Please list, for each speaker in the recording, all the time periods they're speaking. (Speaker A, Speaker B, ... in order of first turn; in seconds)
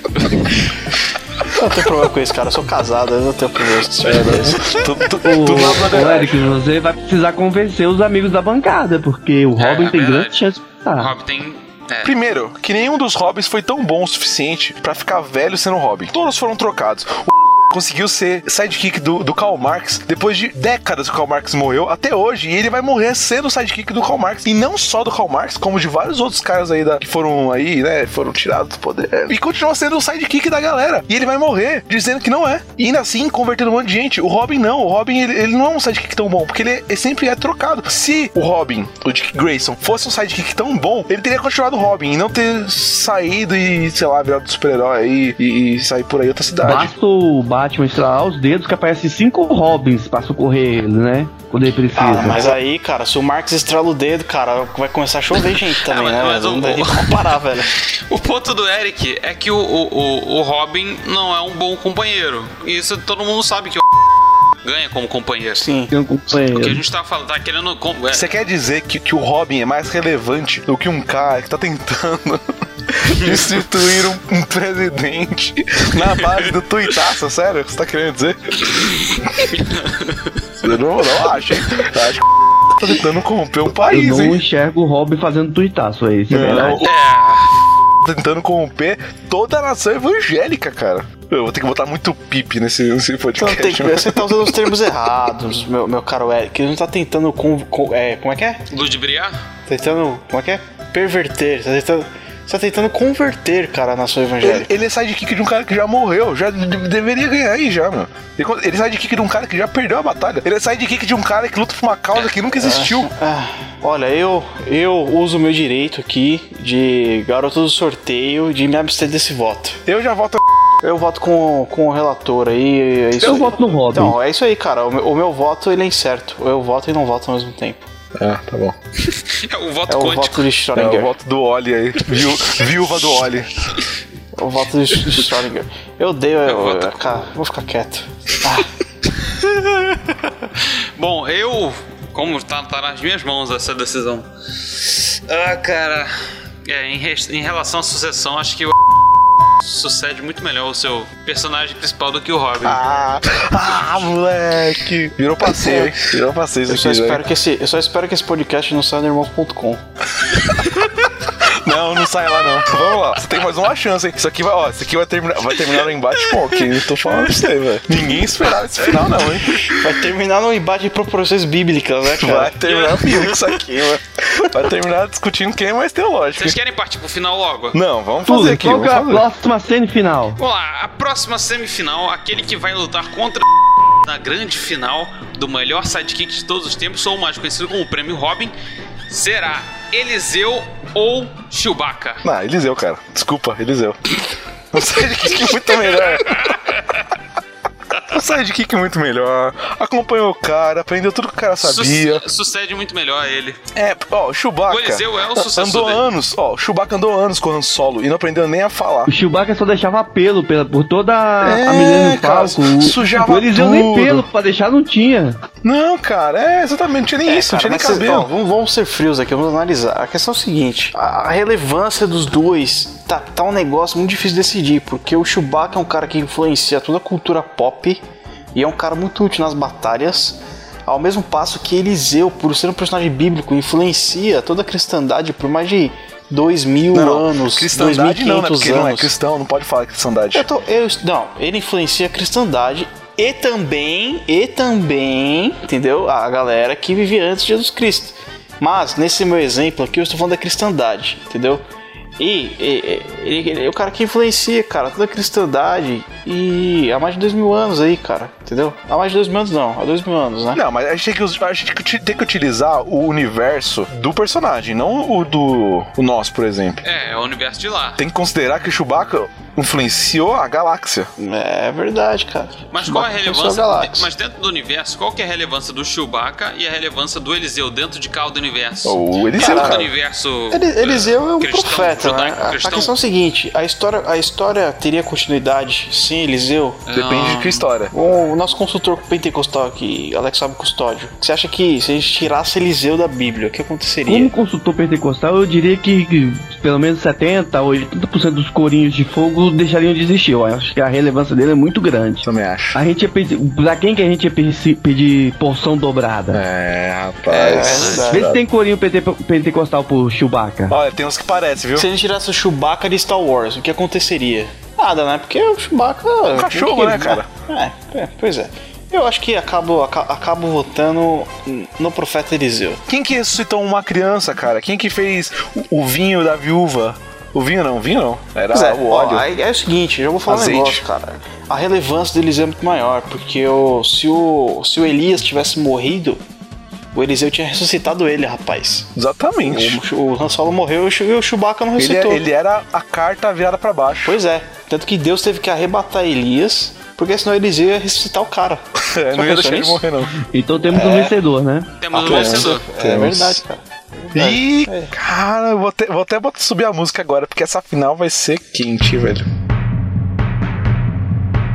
Speaker A: 1.5-4.6, 51.9-57.7, 65.5-65.9, 93.4-98.6, 99.7-104.7, 112.6-119.8, 120.8-127.9, 129.9-131.1, 134.3-138.7, 156.7-159.8, 169.7-172.6, 217.2-228.0, 228.5-239.1, 240.3-251.6, 252.2-260.6, 271.2-274.1, 279.4-279.9, 280.5-286.8, 287.9-294.3, 307.3-308.3, 311.7-322.8, 328.5-336.2, 336.9-338.9, 339.4-342.2, 344.0-349.8, 350.7-351.2, 351.9-354.9
Speaker B: 4.0-6.4, 12.0-46.9, 68.1-78.7, 80.6-84.4, 86.3-86.9, 88.0-94.7, 104.4-113.1, 119.8-120.4, 128.2-128.8, 130.8-133.5, 152.6-157.2, 161.4-169.6, 172.2-176.6, 177.7-179.2, 192.2-194.0, 194.7-196.6, 198.1-202.2, 203.7-209.1, 211.4-214.3, 215.6-218.3, 236.9-240.5, 260.5-266.8, 268.0-271.1, 278.8-279.9, 286.9-287.9, 302.2-302.8, 306.3-308.4, 310.7-311.9, 316.3-317.3, 322.9-329.2, 330.3-330.8, 338.9-339.8, 341.8-344.2, 348.8-350.1, 352.0-353.4, 354.1-359.3
Speaker C: 5.2-11.1, 46.6-52.4, 65.9-66.8, 83.9-86.8, 123.2-124.2, 178.2-180.4, 209.1-215.4, 294.1-306.4, 308.1-310.8, 350.2-351.7
Speaker D: 9.6-10.4, 10.9-12.1, 55.8-63.8, 64.6-65.6, 66.5-68.3, 73.2-73.6, 76.0-76.5, 79.5-80.3, 86.8-87.5, 98.7-99.4, 129.1-130.5, 136.4-137.2, 139.2-146.1, 146.6-148.7, 149.6-152.8, 172.6-173.6, 176.3-177.8, 180.4-183.5, 184.0-188.5, 189.1-192.2, 195.9-197.0, 201.6-203.6, 204.7-206.0, 266.8-268.0, 272.7-282.9, 286.9-287.6, 307.5-308.1, 351.8-352.6